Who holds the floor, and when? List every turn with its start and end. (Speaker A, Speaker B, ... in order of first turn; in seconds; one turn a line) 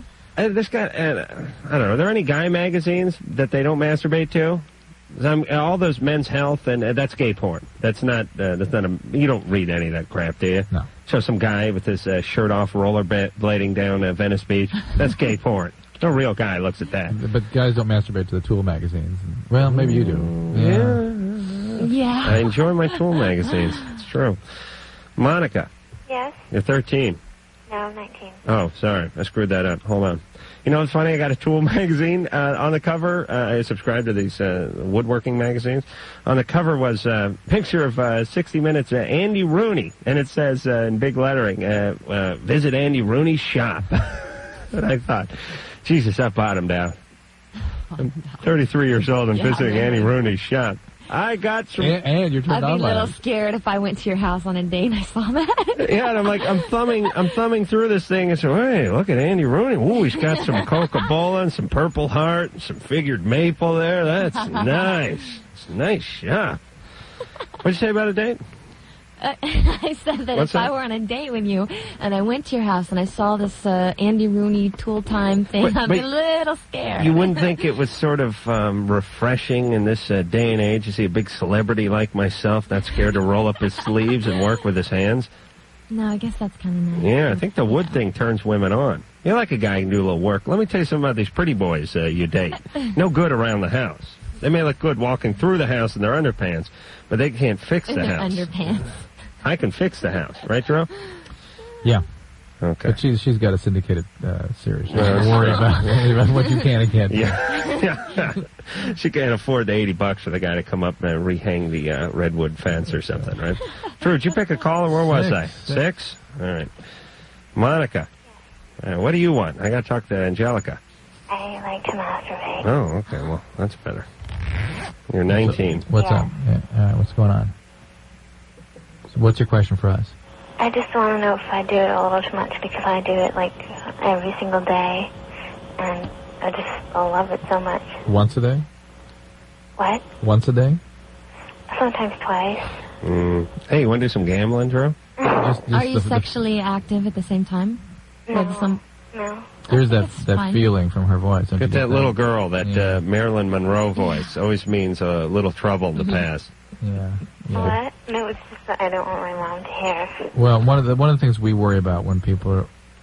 Speaker A: 0.4-17.2
Speaker B: 17.1-21.0
Speaker A: 19.6-24.4
Speaker C: 21.8-23.0
Speaker A: 25.2-25.7
Speaker D: 26.1-26.4
Speaker A: 26.5-27.2
Speaker D: 27.7-28.4
Speaker A: 28.5-47.0
Speaker C: 47.9-48.4
Speaker A: 48.0-52.0
Speaker C: 49.3-50.1
Speaker B: 51.8-53.2
Speaker C: 52.5-57.2
Speaker A: 55.8-66.6
Speaker C: 60.2-60.7
Speaker C: 64.3-64.9
Speaker A: 67.6-68.4
Speaker C: 69.2-77.5
Speaker A: 70.3-70.7
Speaker A: 75.6-76.1
Speaker A: 77.0-85.3
Speaker C: 85.9-88.0
Speaker A: 87.0-98.5
Speaker C: 97.9-99.0
Speaker A: 99.4-100.9
Speaker A: 102.6-103.0
Speaker B: 102.9-107.4
Speaker A: 104.9-106.2
Speaker A: 107.1-116.7
Speaker B: 114.9-115.8
Speaker A: 117.5-118.1
Speaker A: 118.8-120.8
Speaker D: 121.3-122.7
Speaker A: 122.6-124.1
Speaker A: 125.1-125.9
Speaker B: 125.3-127.5
Speaker D: 125.9-126.3
Speaker B: 129.1-130.2
Speaker D: 130.6-135.1
Speaker D: 135.8-138.0
Speaker B: 138.1-138.7
Speaker D: 139.8-140.1
Speaker B: 140.2-140.8
Speaker D: 141.7-142.8
Speaker A: 143.0-145.0
Speaker D: 145.2-145.5
Speaker B: 145.3-146.3
Speaker C: 145.7-148.8
Speaker D: 148.3-149.6
Speaker C: 149.7-150.7
Speaker B: 149.7-153.0
Speaker A: 151.6-156.5
Speaker B: 156.8-157.8
Speaker D: 157.5-160.3
Speaker B: 160.3-162.7